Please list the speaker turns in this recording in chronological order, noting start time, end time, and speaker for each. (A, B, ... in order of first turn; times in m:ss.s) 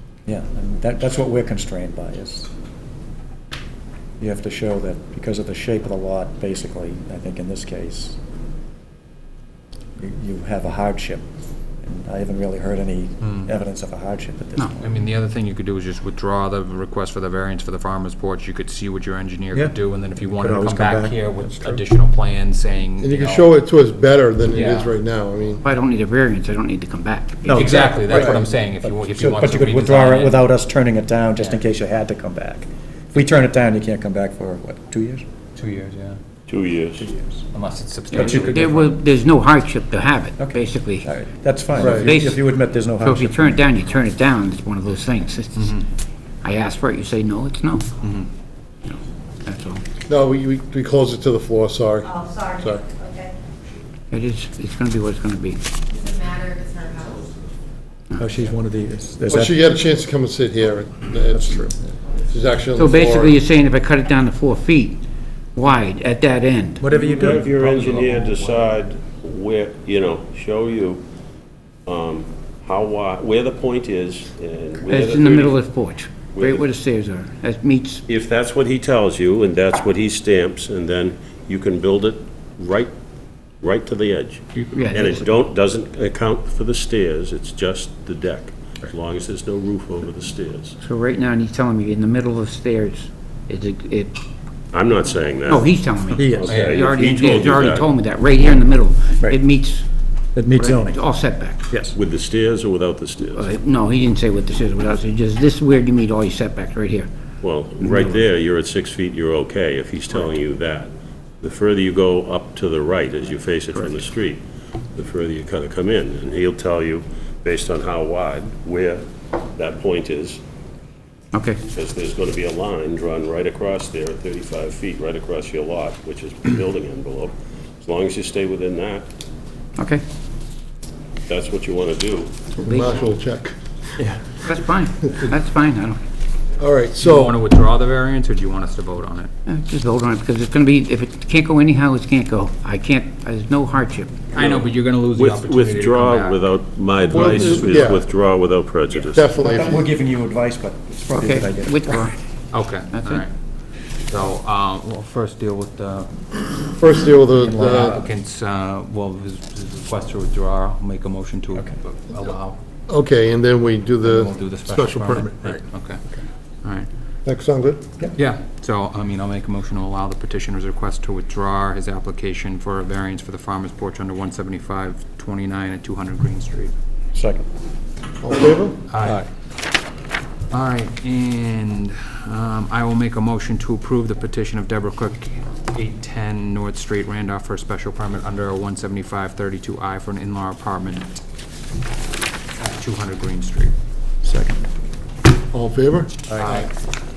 0:00.3-0:02.5 A
0:04.2-0:08.2 A
0:10.0-0:11.2 A
0:11.8-0:14.9 A
0:13.2-0:13.5 B
0:14.8-0:23.5 B
0:19.5-0:21.8 A
0:23.0-0:25.6 C
0:24.5-0:24.9 B
0:25.6-0:28.3 D
0:27.4-0:35.2 A
0:27.5-0:30.4 B
0:35.6-0:36.2 B
0:36.5-0:37.0 E
0:37.0-0:37.4 A
0:37.5-0:38.9 B
0:38.1-0:38.6 A
0:38.1-0:41.1 D
0:40.4-0:43.8 A
0:41.7-0:45.8 D
0:41.8-0:42.1 C
0:45.6-0:45.9 B
0:46.4-0:47.9 D
0:48.0-0:48.3 B
0:48.8-0:49.8 D
0:50.1-0:52.8 C
0:52.0-0:53.3 F
0:54.1-0:55.6 D
0:55.9-0:57.3 F
0:58.2-0:59.8 A
0:59.3-1:01.8 C
1:01.3-1:01.9 A
1:02.3-1:03.4 C
1:02.7-1:05.0 D
1:05.6-1:06.8 D
1:06.8-1:08.6 A
1:06.9-1:11.0 E
1:11.9-1:15.6 E
1:14.9-1:18.0 D
1:16.3-1:16.6 E
1:18.1-1:22.9 E
1:23.6-1:30.8 E
1:24.7-1:25.3 D
1:30.8-1:34.2 D
1:34.7-1:35.7 E
1:35.5-1:39.9 D
1:36.1-1:36.6 A
1:36.2-1:37.9 E
1:36.5-1:36.8 B
1:40.3-1:41.0 A
1:40.5-1:41.7 D
1:41.7-1:42.0 A
1:41.9-1:43.4 E
1:43.3-1:47.1 D
1:47.4-2:00.4 E
1:53.7-1:54.0 D
2:01.3-2:01.6 D
2:01.7-2:09.1 E
2:09.8-2:10.0 D
2:11.3-2:12.4 E
2:12.6-2:13.5 C
2:12.6-2:13.1 D
2:14.4-2:16.0 D
2:16.6-2:17.4 C
2:17.0-2:19.3 B
2:19.5-2:24.1 D
2:24.3-2:26.5 B
2:24.4-2:29.3 E
2:27.1-2:28.1 C
2:27.1-2:27.7 B
2:29.1-2:29.9 C
2:29.4-2:32.1 A
2:31.1-2:32.2 D
2:32.5-2:33.3 B
2:32.9-2:33.2 D
2:34.1-2:36.1 B
2:36.7-2:38.1 C
2:37.4-2:42.6 B
2:42.9-2:45.6 C
2:44.0-2:46.0 B
2:46.6-2:46.9 B
2:47.2-2:47.8 C
2:48.2-2:56.7 B
2:57.1-2:57.5 A
2:58.2-2:58.8 C
2:58.9-2:59.2 B
3:00.5-3:11.1 B
3:12.6-3:13.7 B
3:14.2-3:14.5 A
3:15.5-3:16.2 C
3:16.3-3:16.7 B